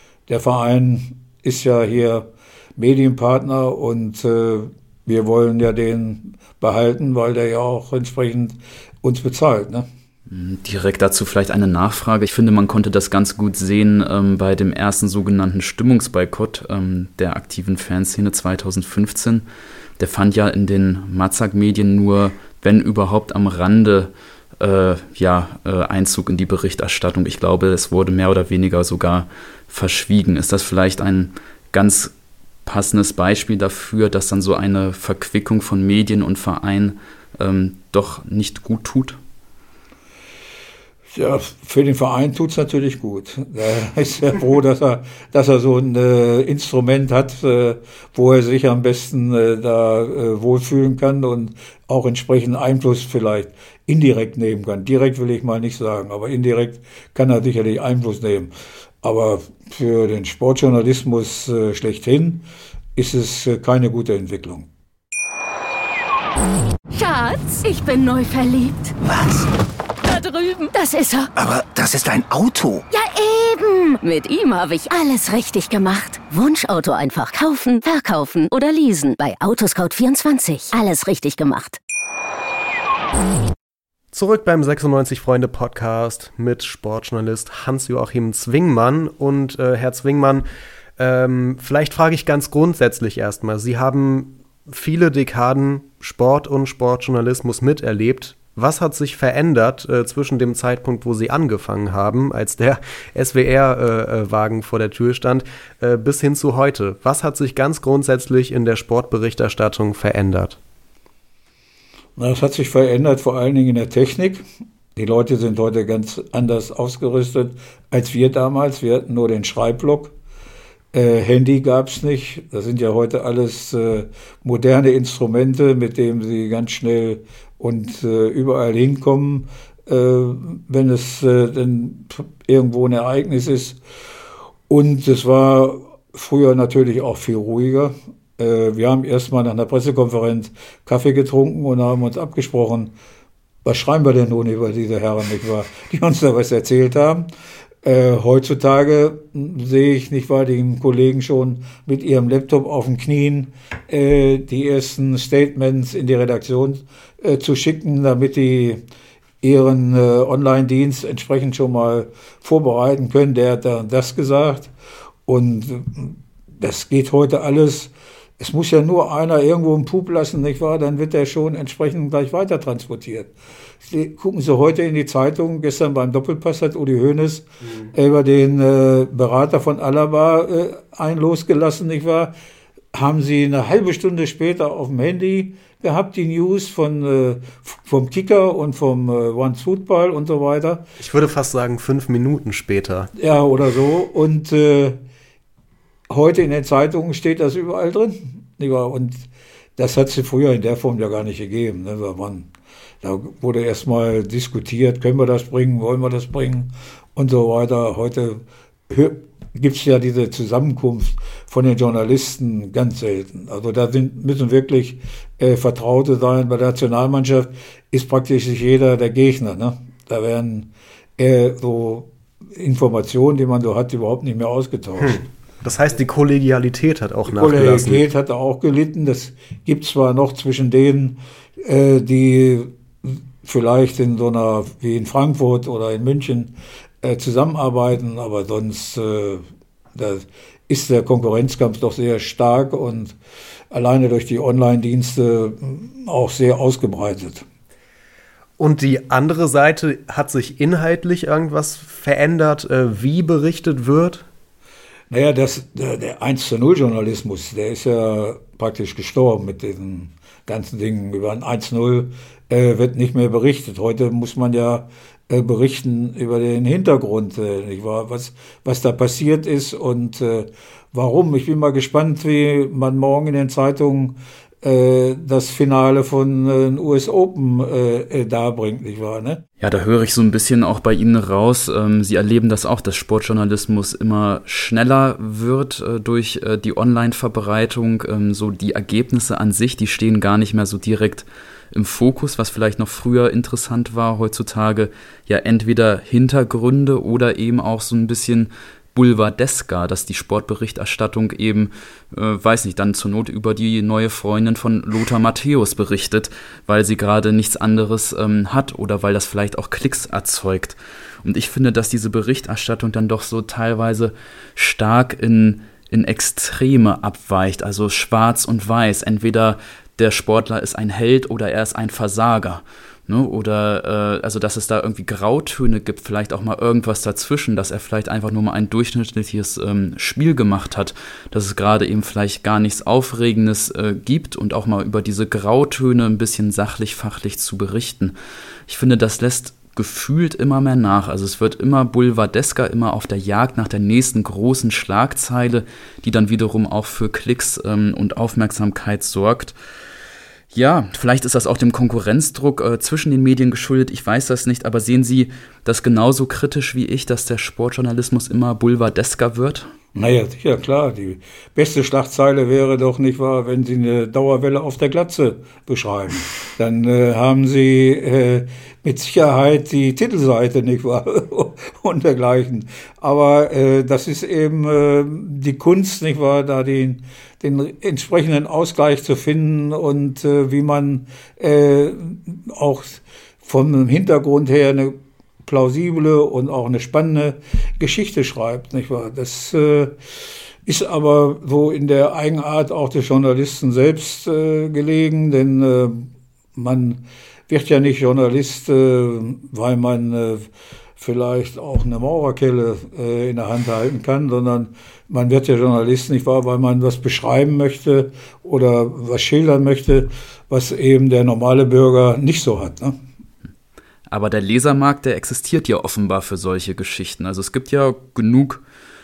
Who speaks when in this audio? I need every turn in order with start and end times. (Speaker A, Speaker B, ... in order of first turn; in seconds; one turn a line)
Speaker A: 0.3-9.9
Speaker B: 10.3-19.4
Speaker B: 20.0-32.1
Speaker B: 32.6-39.2
Speaker A: 41.1-58.5
Speaker A: 59.0-62.5
Speaker A: 63.0-64.7
Speaker C: 66.9-69.0
Speaker D: 69.0-69.5
Speaker C: 70.0-71.3
Speaker D: 71.3-72.8
Speaker C: 72.9-81.8
Speaker E: 84.1-90.5
Speaker E: 91.0-110.6
Speaker A: 112.2-114.4
Speaker A: 115.0-120.1
Speaker A: 120.9-133.8
Speaker A: 134.7-142.9
Speaker A: 143.7-147.3
Speaker A: 147.8-158.8
Speaker A: 159.4-164.7
Speaker A: 165.3-173.3
Speaker A: 173.8-182.3
Speaker A: 182.9-190.8
Speaker E: 191.0-193.1
Speaker A: 193.2-195.0
Speaker A: 196.1-199.3
Speaker A: 199.8-202.5
Speaker A: 203.0-225.2
Speaker E: 225.0-228.0
Speaker A: 227.3-239.4
Speaker A: 239.9-243.2
Speaker A: 243.7-247.4
Speaker E: 248.6-254.3
Speaker A: 255.1-279.4
Speaker B: 279.6-338.1
Speaker B: 338.7-349.6
Speaker B: 350.5-359.7
Speaker A: 359.9-400.5
Speaker A: 401.0-413.0
Speaker B: 414.1-418.6